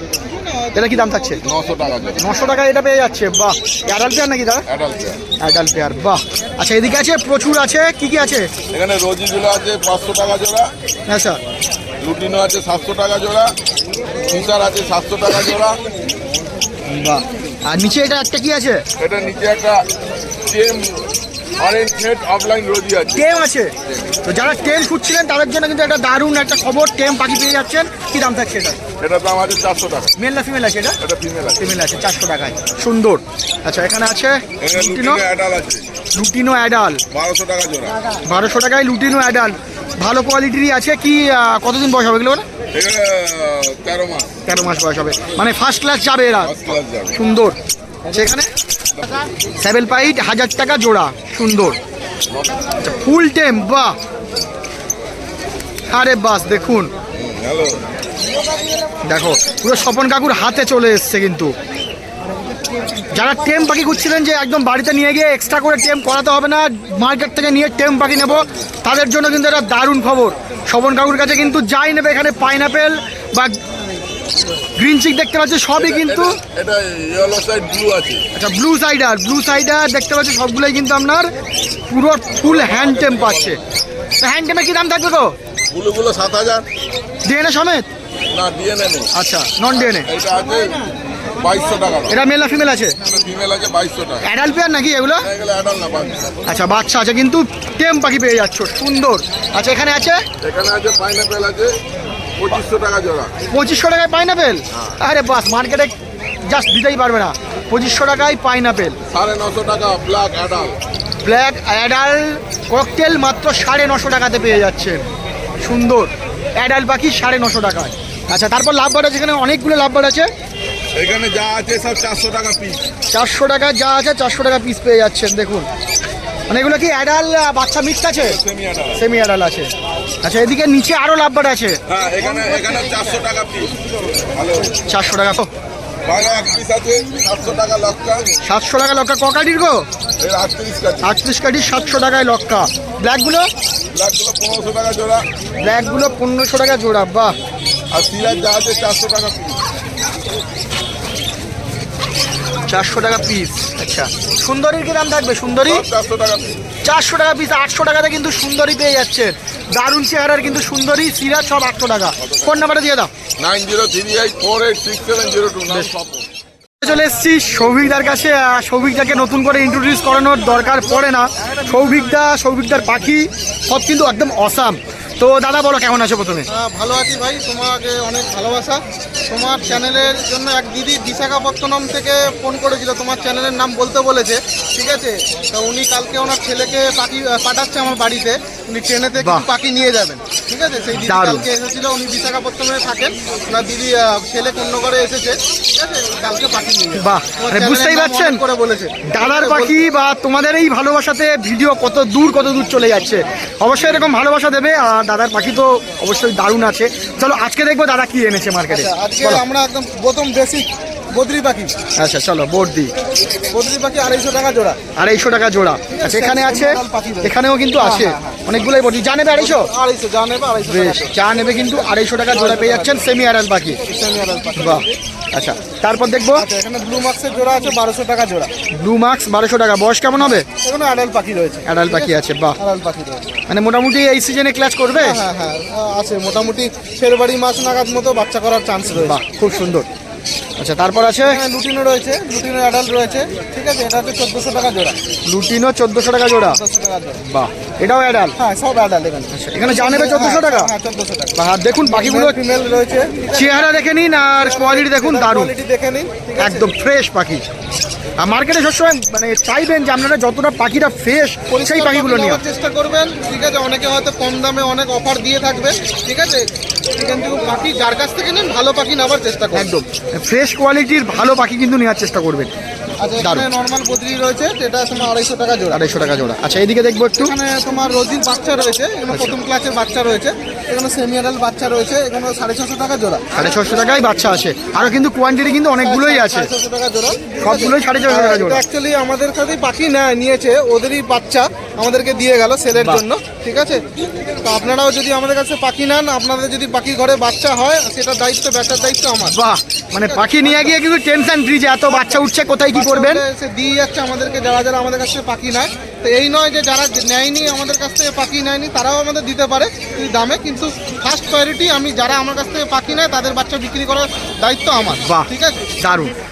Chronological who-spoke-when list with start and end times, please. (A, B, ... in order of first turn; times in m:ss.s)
0:00.3-0:01.4 A
0:00.7-0:01.4 B
0:01.4-0:02.3 C
0:02.2-0:04.6 B
0:04.7-0:05.2 C
0:05.4-0:08.5 B
0:08.7-0:10.7 C
0:11.1-0:11.4 B
0:12.0-0:13.6 C
0:14.3-0:15.8 C
0:16.9-0:18.8 B
0:19.0-0:19.8 C
0:20.5-0:23.3 C
0:23.2-0:23.7 B
0:24.2-0:28.8 B
0:29.0-0:30.1 C
0:30.2-0:31.0 B
0:31.0-0:31.6 C
0:31.6-0:35.2 B
0:34.6-0:35.9 C
0:36.2-0:37.0 B
0:37.1-0:38.0 C
0:38.2-0:42.5 B
0:42.7-0:44.4 C
0:44.5-0:47.6 B
0:46.4-0:47.2 C
0:48.1-0:48.5 B
0:49.6-0:51.8 B
0:52.8-0:54.0 B
0:55.9-0:56.9 B
0:57.1-0:57.8 C
0:59.0-1:01.5 B
1:03.1-1:13.6 B
1:14.8-1:16.4 B
1:15.8-1:18.2 C
1:18.4-1:21.3 B
1:21.9-1:23.6 B
1:22.4-1:23.6 C
1:24.2-1:25.4 B
1:25.7-1:26.6 C
1:27.3-1:27.9 B
1:28.3-1:29.1 C
1:29.1-1:30.1 B
1:29.7-1:30.8 C
1:31.4-1:32.2 C
1:32.1-1:33.0 B
1:33.0-1:34.2 C
1:34.2-1:35.3 B
1:35.2-1:36.4 C
1:36.5-1:40.2 B
1:40.4-1:41.8 C
1:42.4-1:43.3 C
1:43.5-1:46.0 B
1:46.5-1:49.0 B
1:49.1-1:50.8 C
1:51.2-1:55.0 B
1:55.6-2:00.3 B
2:01.0-2:02.8 C
2:03.1-2:05.7 B
2:06.5-2:08.4 B
2:08.2-2:09.0 C
2:09.0-2:09.7 B
2:10.2-2:11.8 B
2:11.9-2:14.8 C
2:12.1-2:13.2 A
2:14.9-2:15.5 B
2:16.1-2:18.3 C
2:18.4-2:19.9 B
2:20.2-2:21.1 C
2:21.0-2:23.5 B
2:23.9-2:25.2 C
2:25.6-2:27.4 B
2:27.9-2:29.6 C
2:32.7-2:35.8 B
2:35.6-2:36.6 C
2:36.8-2:43.1 B
2:42.2-2:42.6 C
2:43.4-2:46.3 C
2:46.8-2:56.5 B
2:56.5-3:19.8 A
3:09.2-3:09.5 B
3:11.0-3:11.5 B
3:17.0-3:18.4 B
3:19.0-3:29.4 B
3:28.7-3:31.7 A
3:32.0-3:32.9 B
3:33.5-3:34.8 A
3:35.0-3:39.7 B
3:36.0-3:38.4 A
3:39.3-3:43.1 A
3:40.6-3:43.8 B
3:43.8-3:45.0 A
3:44.6-3:46.5 B
3:46.4-3:48.5 A
3:48.7-3:50.5 B
3:50.2-3:53.3 A
3:51.7-3:52.6 B
3:53.5-3:55.2 B
3:55.0-3:59.2 A
3:58.9-3:59.9 B
4:00.6-4:01.4 B
4:01.2-4:05.0 A
4:05.3-4:06.6 B
4:06.5-4:07.2 A
4:07.2-4:08.4 B
4:08.4-4:16.7 A
4:09.3-4:10.7 B
4:11.4-4:12.4 B
4:13.3-4:15.5 B
4:16.4-4:17.4 B
4:18.2-4:22.4 B
4:21.5-4:29.7 A
4:29.5-4:32.5 B
4:33.0-4:35.9 A
4:33.2-4:33.5 B
4:35.7-4:37.4 B
4:37.2-4:43.7 A
4:39.1-4:39.4 B
4:43.3-4:46.5 B
4:44.8-4:45.0 A
4:45.8-4:53.8 A
4:47.4-4:48.6 B
4:52.8-4:53.0 B
4:54.4-4:59.4 A
4:59.2-5:03.2 B
5:00.1-5:00.7 A
5:01.9-5:15.8 A
5:15.0-5:16.1 B